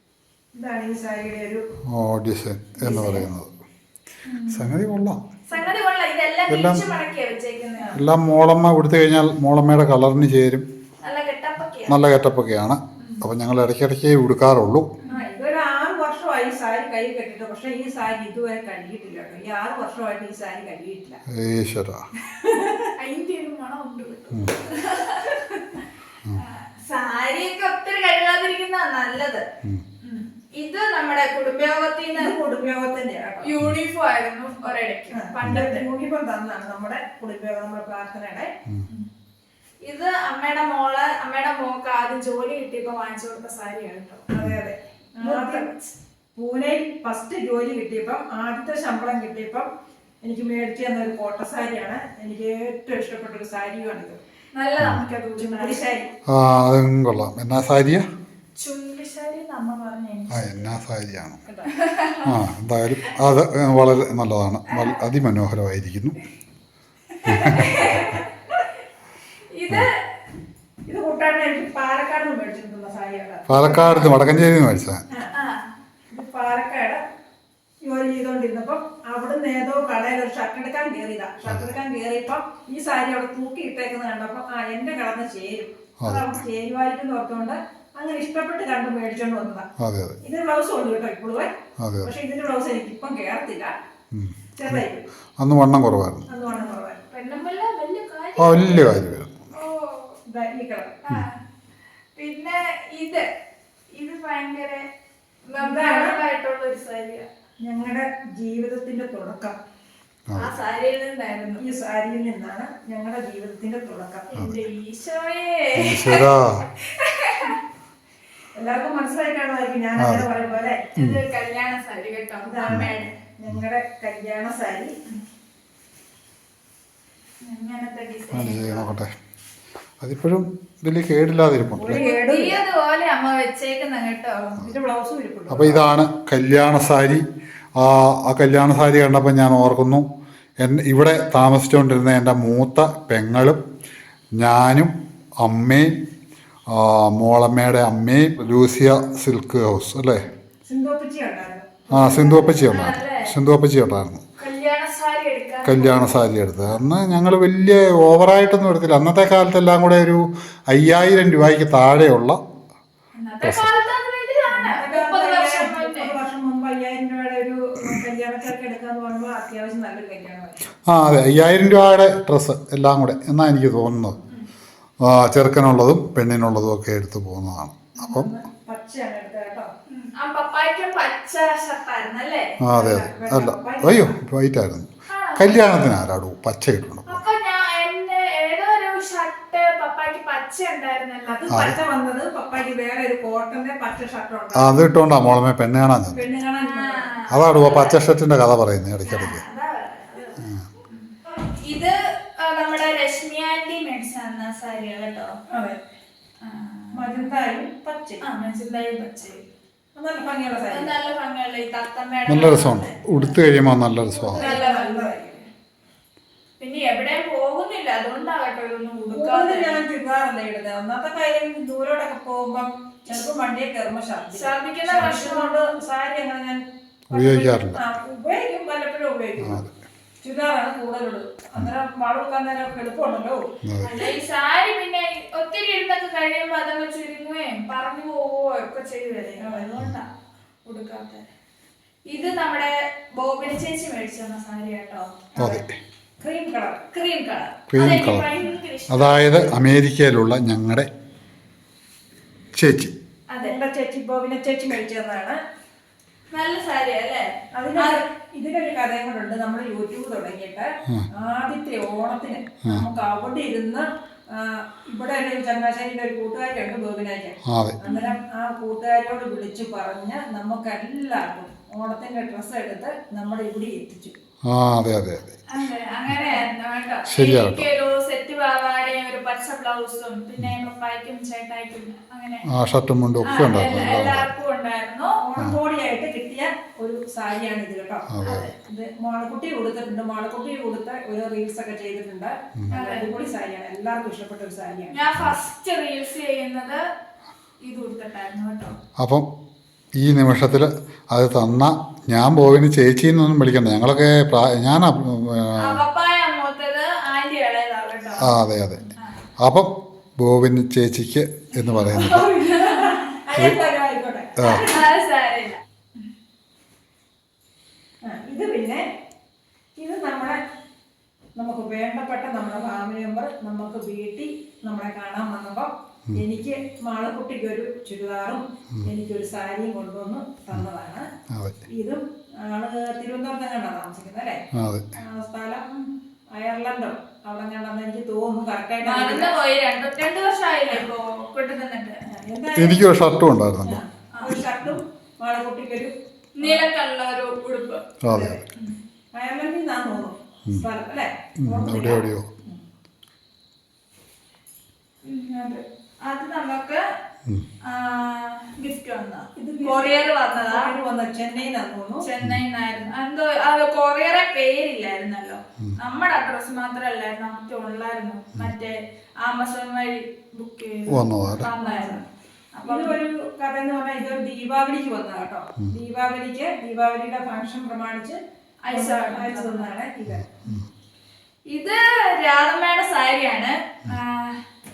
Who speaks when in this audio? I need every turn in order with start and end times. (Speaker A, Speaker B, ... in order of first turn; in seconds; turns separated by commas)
Speaker A: 0.5-1.6, Speaker B: 1.9-3.5, Speaker A: 2.8-3.2, Speaker C: 4.3-4.7, Speaker B: 4.5-5.2, Speaker C: 5.5-8.0, Speaker B: 6.5-6.8, Speaker B: 7.9-10.7, Speaker C: 11.0-12.0, Speaker B: 11.9-14.9, Speaker A: 15.1-21.2, Speaker B: 21.3-22.0, Speaker A: 22.3-22.9, Speaker C: 23.0-25.5, Speaker B: 24.3-24.6, Speaker C: 26.3-29.4, Speaker C: 30.0-32.3, Speaker A: 32.2-33.5, Speaker C: 33.4-35.9, Speaker A: 35.1-38.5, Speaker C: 39.8-44.2, Speaker A: 44.3-45.7, Speaker C: 45.2-45.9, Speaker A: 46.4-49.7, Speaker A: 50.2-54.2, Speaker C: 54.5-55.8, Speaker A: 55.4-56.1, Speaker B: 56.2-58.0, Speaker C: 58.6-60.4, Speaker B: 60.3-61.4, Speaker A: 61.5-61.7, Speaker C: 61.7-62.3, Speaker B: 62.2-66.2, Speaker C: 64.7-65.0, Speaker C: 67.1-68.6, Speaker B: 67.2-67.8, Speaker C: 69.5-69.9, Speaker A: 70.9-74.2, Speaker B: 73.5-75.0, Speaker C: 75.3-75.7, Speaker A: 76.1-77.0, Speaker A: 77.8-89.7, Speaker B: 86.0-86.4, Speaker B: 89.8-90.2, Speaker A: 90.2-91.5, Speaker B: 91.8-92.1, Speaker A: 92.0-93.7, Speaker B: 94.1-94.8, Speaker A: 94.6-95.0, Speaker B: 95.4-96.3, Speaker A: 96.3-97.0, Speaker C: 97.1-99.0, Speaker B: 98.4-99.5, Speaker C: 99.5-100.2, Speaker A: 100.2-101.0, Speaker C: 101.0-101.4, Speaker C: 102.2-103.3, Speaker C: 103.9-104.8, Speaker C: 105.5-107.2, Speaker A: 105.6-106.2, Speaker A: 107.6-109.6, Speaker B: 110.3-110.5, Speaker C: 110.3-111.6, Speaker A: 111.6-114.3, Speaker C: 114.3-117.6, Speaker B: 115.8-116.6, Speaker A: 118.5-120.8, Speaker B: 120.0-120.3, Speaker C: 120.3-123.1, Speaker B: 121.0-121.2, Speaker A: 122.4-124.9, Speaker C: 127.4-128.9, Speaker B: 128.3-129.1, Speaker B: 130.0-132.0, Speaker A: 131.8-132.6, Speaker C: 131.9-134.6, Speaker A: 134.6-135.8, Speaker B: 135.5-137.2, Speaker B: 137.8-140.1, Speaker B: 140.6-143.6, Speaker B: 144.3-145.9, Speaker B: 146.7-150.3, Speaker A: 150.7-152.8, Speaker B: 151.9-154.2, Speaker C: 152.6-153.3, Speaker C: 154.4-156.2, Speaker B: 155.6-162.4, Speaker C: 163.2-166.1, Speaker B: 163.4-163.7, Speaker A: 164.5-170.6, Speaker B: 170.9-174.2, Speaker B: 175.0-178.3, Speaker A: 178.0-179.7, Speaker C: 179.9-182.5, Speaker B: 182.6-187.2, Speaker A: 182.7-184.1, Speaker C: 185.1-185.5, Speaker C: 187.1-191.6, Speaker A: 191.2-194.8, Speaker B: 191.5-191.8, Speaker B: 194.5-196.2, Speaker A: 196.1-197.1, Speaker C: 196.6-198.0, Speaker B: 197.3-199.4, Speaker C: 199.0-205.3, Speaker B: 200.3-200.7, Speaker A: 205.5-205.8, Speaker C: 206.4-207.3, Speaker A: 206.9-208.2, Speaker C: 208.2-209.4, Speaker A: 209.9-210.9, Speaker C: 210.7-213.4, Speaker B: 212.3-214.4, Speaker C: 214.1-215.1, Speaker A: 214.3-215.4, Speaker C: 216.6-219.8, Speaker A: 219.1-229.6, Speaker C: 224.3-225.5, Speaker B: 227.1-227.8, Speaker B: 229.4-229.7, Speaker A: 230.2-233.4, Speaker B: 233.6-234.1, Speaker C: 233.8-240.1, Speaker A: 239.2-239.7, Speaker C: 240.7-241.2, Speaker C: 242.1-245.2, Speaker B: 245.4-245.8, Speaker A: 246.2-246.9, Speaker C: 246.9-249.5, Speaker B: 247.7-248.3, Speaker B: 248.9-250.9, Speaker B: 252.5-252.9, Speaker A: 253.4-255.4, Speaker C: 256.3-258.0, Speaker A: 257.5-274.1, Speaker B: 267.4-267.8, Speaker C: 267.8-268.2, Speaker B: 274.4-275.4, Speaker C: 275.5-282.5, Speaker B: 277.1-277.7, Speaker B: 282.4-284.3, Speaker C: 283.2-285.2, Speaker A: 285.2-288.1, Speaker B: 288.1-288.5, Speaker C: 288.2-288.5, Speaker A: 288.6-294.9, Speaker C: 292.7-293.1, Speaker C: 294.9-296.8, Speaker C: 297.6-298.8, Speaker B: 299.0-299.3, Speaker B: 299.9-305.8, Speaker C: 305.6-309.2, Speaker B: 308.2-312.3, Speaker C: 311.6-313.1, Speaker A: 311.9-314.8, Speaker B: 314.4-314.7, Speaker C: 314.4-315.6, Speaker A: 318.0-318.9, Speaker A: 319.8-320.4, Speaker A: 321.4-331.1, Speaker B: 331.3-331.6, Speaker A: 331.7-334.4, Speaker B: 334.5-334.9, Speaker A: 335.0-335.7, Speaker A: 336.3-339.3, Speaker C: 338.8-342.0, Speaker A: 342.1-342.9, Speaker B: 342.5-343.8, Speaker A: 343.6-346.6, Speaker C: 344.1-344.4, Speaker C: 346.4-347.8, Speaker B: 348.0-348.4, Speaker A: 348.1-348.4, Speaker A: 349.1-352.6, Speaker B: 351.4-352.3, Speaker C: 355.0-356.8, Speaker C: 357.6-360.7, Speaker A: 359.4-362.0, Speaker C: 362.0-372.9, Speaker B: 370.9-371.5, Speaker A: 371.6-372.0, Speaker A: 372.6-378.2, Speaker C: 378.6-379.7, Speaker A: 378.7-380.3, Speaker B: 380.1-380.7, Speaker C: 381.5-384.4